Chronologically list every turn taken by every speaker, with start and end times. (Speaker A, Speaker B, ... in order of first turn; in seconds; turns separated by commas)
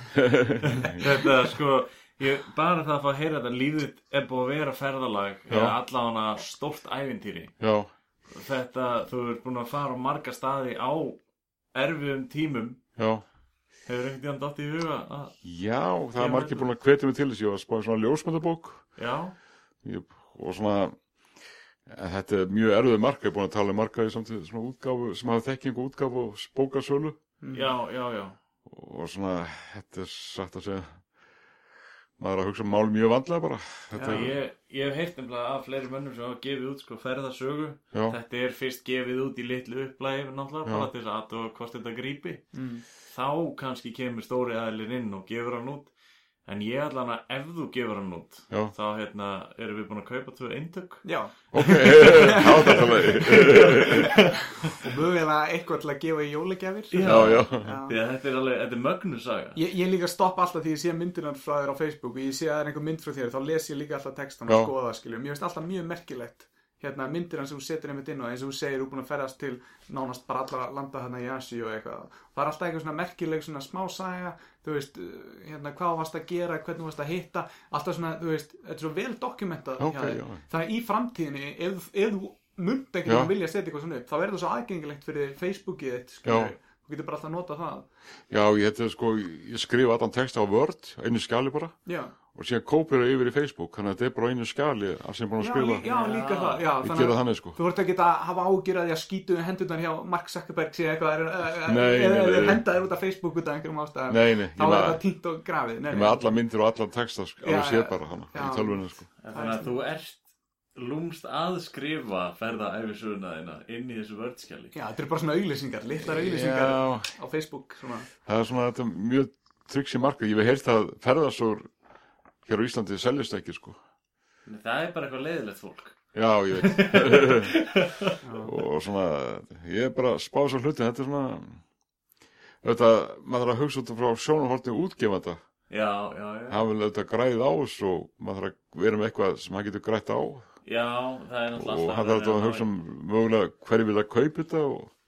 Speaker A: 0.1-1.1, Speaker B: 0.6-7.5, Speaker A: 5.5-5.8, Speaker A: 7.6-7.9, Speaker B: 8.3-11.2, Speaker B: 11.7-12.8, Speaker A: 13.0-13.2, Speaker B: 13.9-15.4, Speaker A: 15.4-18.9, Speaker B: 16.2-16.7, Speaker B: 19.0-19.4, Speaker A: 19.8-21.0, Speaker A: 21.9-27.2, Speaker C: 27.4-27.7, Speaker B: 27.5-28.4, Speaker A: 28.7-31.0, Speaker A: 32.2-34.4, Speaker C: 33.9-34.2, Speaker B: 34.0-42.5, Speaker A: 37.9-38.2, Speaker C: 42.5-42.8, Speaker B: 43.1-45.9, Speaker B: 46.5-51.0, Speaker C: 51.0-58.0, Speaker A: 51.5-54.2, Speaker B: 52.4-54.7, Speaker B: 56.9-59.6, Speaker A: 57.0-57.8, Speaker C: 59.5-87.9, Speaker A: 79.8-80.4, Speaker A: 83.1-83.3, Speaker A: 86.2-86.5, Speaker A: 88.3-91.8, Speaker C: 91.9-92.1, Speaker A: 92.3-95.8, Speaker C: 95.4-106.4, Speaker B: 95.8-96.7, Speaker A: 96.8-97.6, Speaker A: 101.6-102.6, Speaker A: 104.1-105.0, Speaker A: 105.9-109.1, Speaker C: 107.4-109.8, Speaker B: 109.2-110.2, Speaker B: 110.8-114.7, Speaker C: 114.7-118.1, Speaker A: 116.0-117.1, Speaker A: 118.2-121.7, Speaker A: 122.5-123.8, Speaker B: 124.5-126.0, Speaker A: 126.1-127.6, Speaker B: 126.5-128.2, Speaker C: 128.2-128.6, Speaker A: 128.4-131.6, Speaker A: 132.6-135.4, Speaker B: 135.7-136.6, Speaker A: 136.5-140.5, Speaker B: 140.7-142.7, Speaker A: 141.6-144.9